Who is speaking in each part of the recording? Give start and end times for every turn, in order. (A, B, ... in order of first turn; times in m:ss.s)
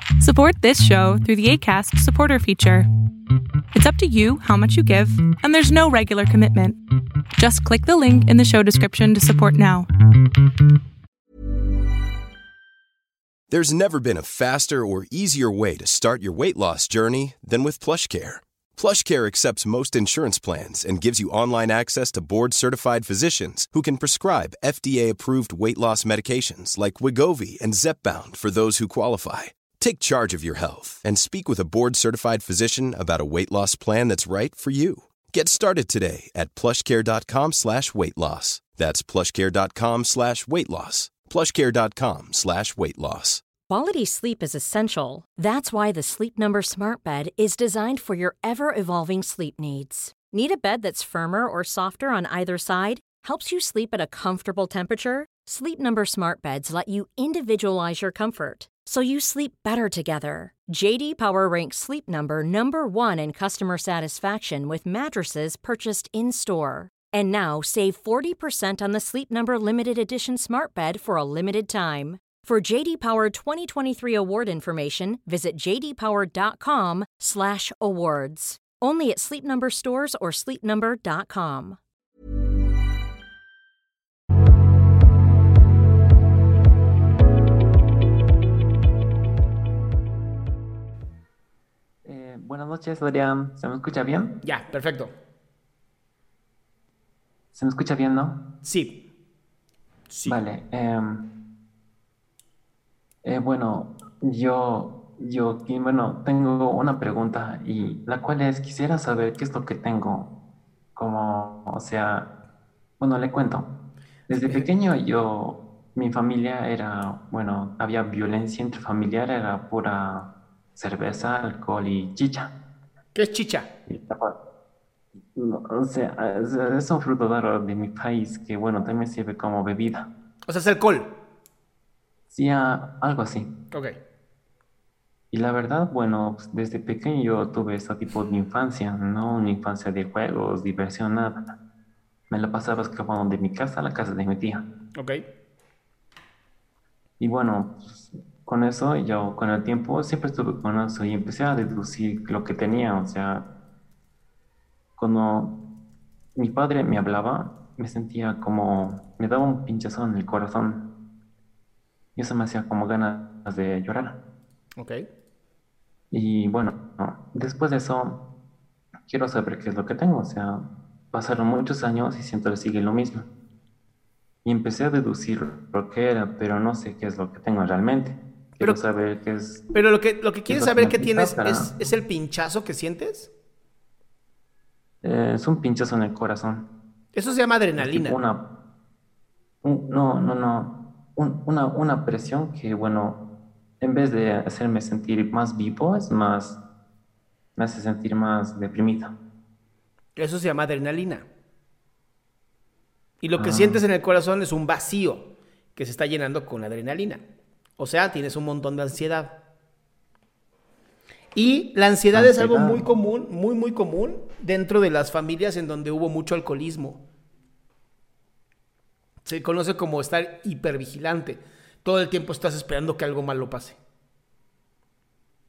0:00.2-0:02.9 A
0:03.7-0:06.8 A
0:07.4-0:09.9 A
0:13.5-0:43.4 B
0:43.7-1:21.8 C
1:32.0-1:34.3 D
1:34.4-1:35.1 E
1:37.5-1:38.4 D
1:38.6-1:39.0 E
1:40.1-1:40.4 E
1:40.3-1:41.2 D
1:43.2-1:50.3 D
1:51.0-1:52.3 D
1:53.0-1:53.7 D
1:54.3-2:02.5 D
1:54.3-1:54.7 E
2:03.1-2:03.7 E
2:03.9-2:04.4 D
2:05.4-2:10.1 D
2:10.5-2:11.1 E
2:12.3-2:13.5 D
2:15.3-2:21.5 D
2:22.3-2:24.7 D
2:27.2-2:33.4 D
2:35.0-2:35.5 D
2:36.4-2:40.8 D
2:42.2-2:44.2 D
2:46.1-2:48.2 D
2:49.1-2:53.3 D
2:54.4-2:59.7 D
2:59.7-3:03.3 E
3:00.5-3:01.7 D
3:05.0-3:06.7 D
3:07.1-3:08.2 E
3:07.8-3:08.4 D
3:09.6-3:13.2 D
3:13.8-3:16.6 D
3:17.6-3:19.1 D
3:20.2-3:21.3 E
3:23.2-3:27.2 E
3:23.4-3:23.8 D
3:27.8-3:29.3 E
3:31.4-3:37.0 E
3:32.1-3:32.8 D
3:39.3-3:43.8 E